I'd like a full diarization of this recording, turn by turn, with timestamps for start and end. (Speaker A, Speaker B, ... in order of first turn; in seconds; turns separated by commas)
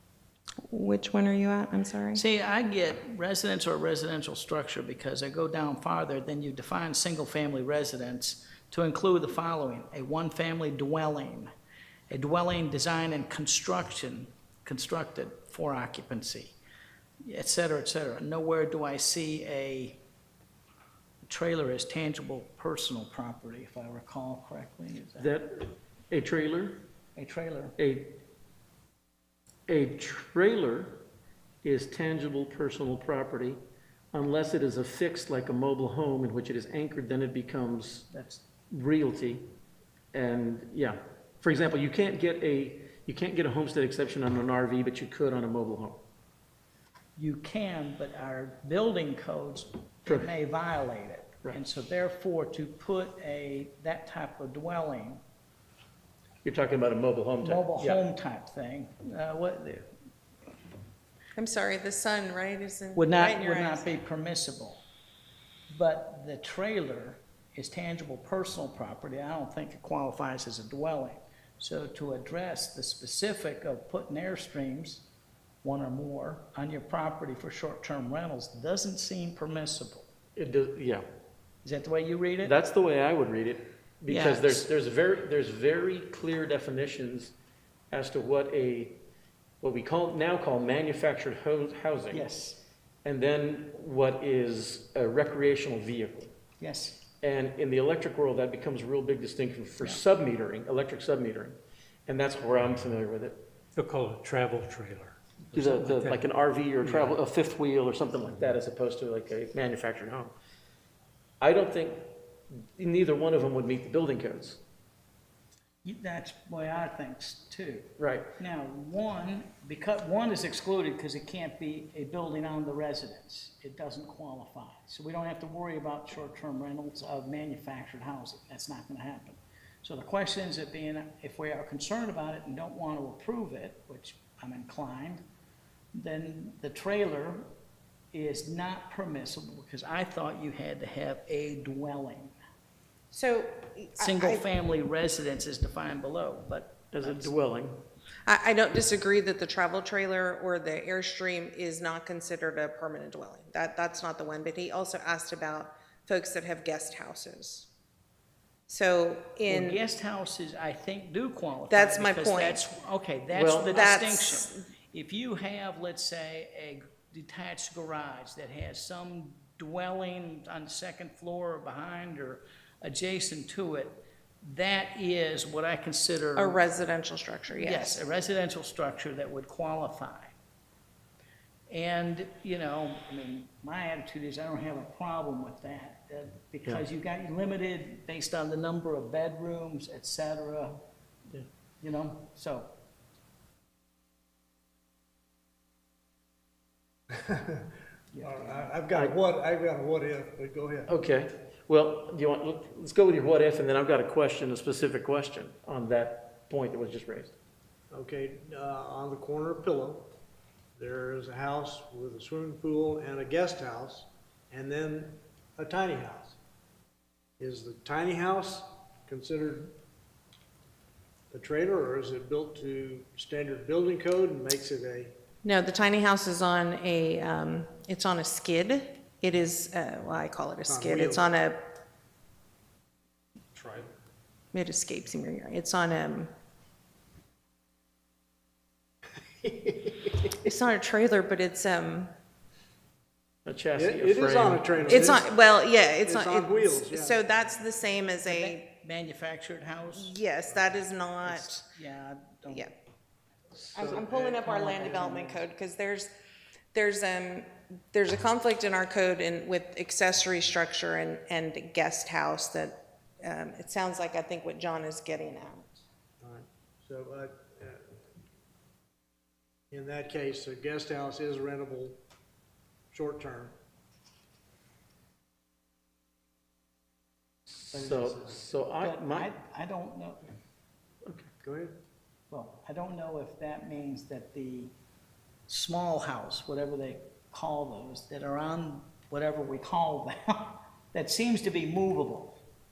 Speaker A: 0.7-2.2, Speaker B: 2.1-11.5, Speaker B: 12.1-16.6, Speaker B: 17.2-20.0, Speaker B: 21.2-25.3, Speaker C: 25.2-26.9, Speaker B: 27.2-27.8, Speaker C: 27.8-28.2, Speaker C: 29.7-31.1, Speaker C: 31.6-33.6, Speaker C: 34.1-38.1, Speaker B: 38.1-38.5, Speaker C: 38.7-39.5, Speaker C: 40.1-46.0, Speaker B: 47.2-55.2, Speaker C: 50.1-50.3, Speaker C: 56.4-58.0, Speaker B: 57.4-59.9, Speaker A: 61.4-63.9, Speaker B: 63.0-64.8, Speaker B: 65.7-75.1, Speaker B: 75.6-80.1, Speaker C: 80.4-81.0, Speaker B: 81.6-82.5, Speaker C: 82.4-87.3, Speaker A: 84.1-84.6, Speaker C: 87.9-89.0, Speaker C: 89.6-92.3, Speaker B: 92.1-92.6, Speaker C: 93.0-96.3, Speaker B: 96.6-97.0, Speaker C: 97.2-103.4, Speaker D: 103.8-106.2, Speaker C: 105.5-110.3, Speaker D: 106.8-107.2, Speaker C: 111.4-112.1, Speaker C: 112.8-114.6, Speaker B: 115.8-135.2, Speaker C: 118.0-118.3, Speaker B: 135.9-137.5, Speaker B: 138.1-142.3, Speaker A: 143.1-144.4, Speaker B: 144.0-147.3, Speaker C: 146.9-147.8, Speaker A: 148.3-157.7, Speaker A: 158.7-159.8, Speaker B: 159.5-176.6, Speaker A: 161.7-162.6, Speaker C: 163.3-163.8, Speaker A: 163.7-164.6, Speaker A: 176.4-178.0, Speaker B: 177.5-180.3, Speaker B: 181.7-190.8, Speaker B: 191.8-192.7, Speaker E: 197.1-197.7, Speaker B: 198.1-198.7, Speaker E: 198.2-200.9, Speaker C: 200.9-207.3, Speaker E: 207.9-210.1, Speaker E: 210.8-216.4, Speaker E: 217.4-219.7, Speaker E: 221.3-225.2, Speaker A: 225.4-231.7, Speaker E: 230.7-231.3, Speaker D: 233.6-233.9, Speaker A: 234.5-236.3, Speaker E: 239.4-240.1, Speaker A: 240.4-242.1, Speaker C: 243.4-245.2, Speaker E: 243.8-245.3, Speaker A: 244.9-248.6, Speaker E: 246.0-247.2, Speaker B: 248.2-250.2, Speaker A: 249.9-251.5, Speaker B: 251.2-252.7, Speaker A: 252.5-252.7, Speaker E: 253.8-254.5, Speaker A: 253.8-256.1, Speaker B: 254.4-255.4, Speaker A: 256.7-265.8, Speaker E: 266.2-268.0, Speaker E: 269.7-272.0, Speaker E: 272.9-273.6, Speaker C: 277.5-279.3, Speaker E: 277.7-278.4, Speaker B: 278.8-280.3, Speaker C: 281.1-281.3, Speaker E: 281.4-281.8, Speaker B: 282.3-284.7, Speaker B: 285.5-292.4